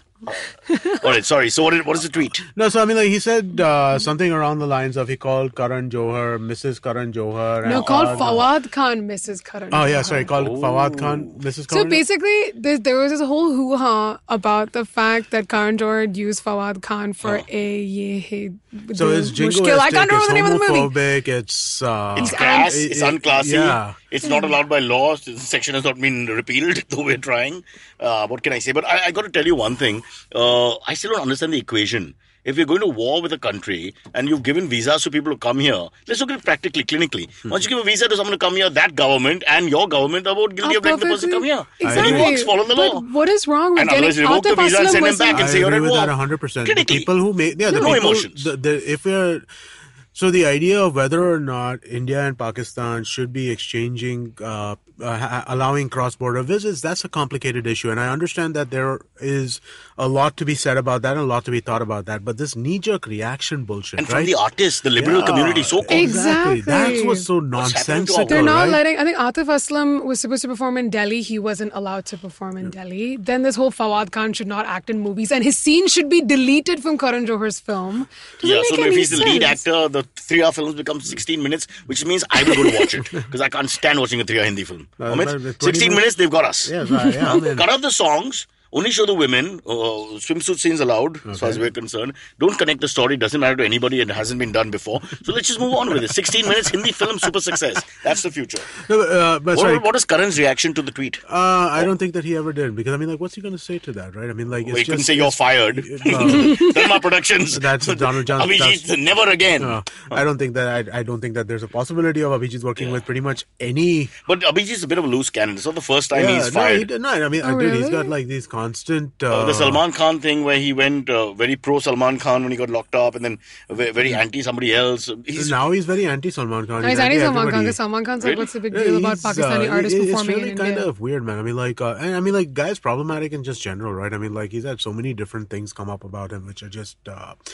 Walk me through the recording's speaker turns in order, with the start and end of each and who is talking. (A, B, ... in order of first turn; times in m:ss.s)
0:00.3-0:02.4 A
0:00.7-0:01.0 B
0:02.5-0:08.5 C
0:07.6-0:10.2 B
0:07.6-0:08.4 A
0:09.7-0:12.0 C
0:10.3-0:11.3 A
0:11.7-0:21.0 B
0:18.9-0:24.0 C
0:22.1-0:43.1 A
0:22.2-0:22.8 B
0:24.2-0:24.6 B
0:40.6-0:45.5 B
0:41.8-0:42.3 C
0:43.8-0:47.1 A
0:45.3-0:49.4 C
0:47.6-0:48.0 B
0:47.7-0:48.5 A
0:50.1-1:04.3 C
1:04.0-1:06.1 A
1:05.0-1:08.8 C
1:05.9-1:07.3 B
1:07.6-1:08.5 A
1:08.3-1:19.6 B
1:18.4-1:38.7 A
1:25.0-1:27.7 C
1:31.3-1:31.6 C
1:38.8-1:39.9 C
1:39.5-1:41.2 A
1:41.3-1:46.8 C
1:44.6-1:50.2 A
1:47.5-1:48.8 C
1:49.6-1:54.1 C
1:52.8-1:53.1 A
1:54.2-1:56.9 A
1:56.1-1:59.8 C
1:57.4-1:58.1 B
1:59.3-2:05.6 A
2:05.3-2:07.8 C
2:06.8-2:10.9 B
2:08.2-2:08.5 A
2:08.7-2:17.4 C